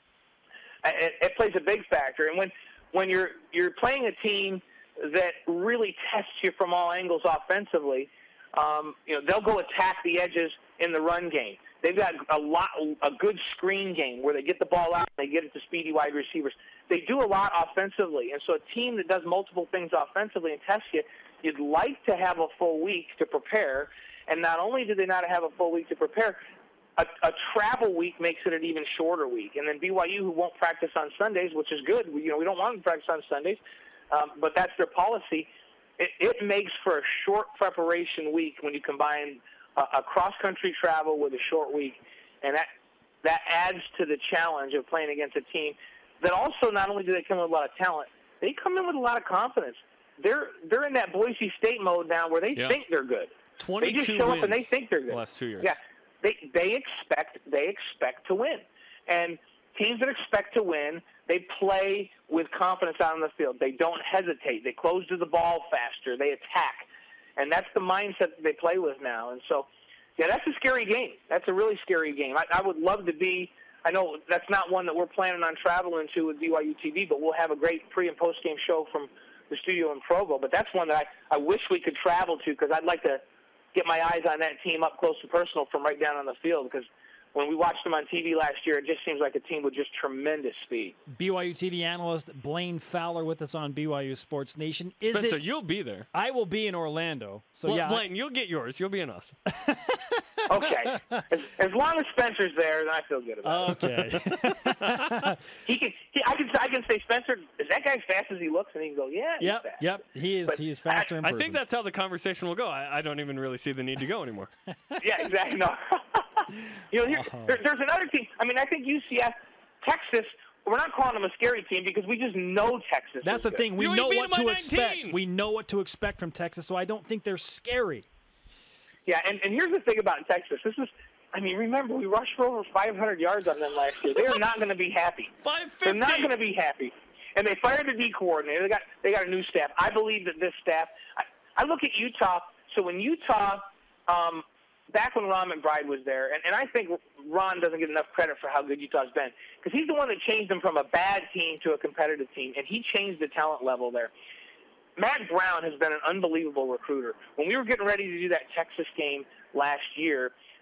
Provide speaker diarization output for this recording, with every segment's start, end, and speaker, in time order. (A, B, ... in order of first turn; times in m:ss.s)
0:00.8-0:26.4 A
0:27.0-0:33.6 A
0:34.1-0:42.7 A
0:43.2-1:23.2 A
0:53.6-0:55.8 B
1:23.7-1:31.0 A
1:31.1-1:35.4 C
1:35.1-1:36.1 B
1:36.1-1:38.0 C
1:37.7-1:39.4 B
1:39.5-1:40.2 C
1:40.5-1:43.8 A
1:43.4-1:45.3 C
1:43.7-1:45.4 B
1:45.6-1:50.0 A
1:49.4-1:51.6 C
1:50.5-1:51.1 A
1:51.2-1:54.5 B
1:55.0-2:03.7 A
1:57.1-1:57.6 C
2:03.2-2:08.1 C
2:03.8-2:05.2 B
2:09.1-2:34.1 A
2:15.4-2:16.3 B
2:35.0-2:40.3 A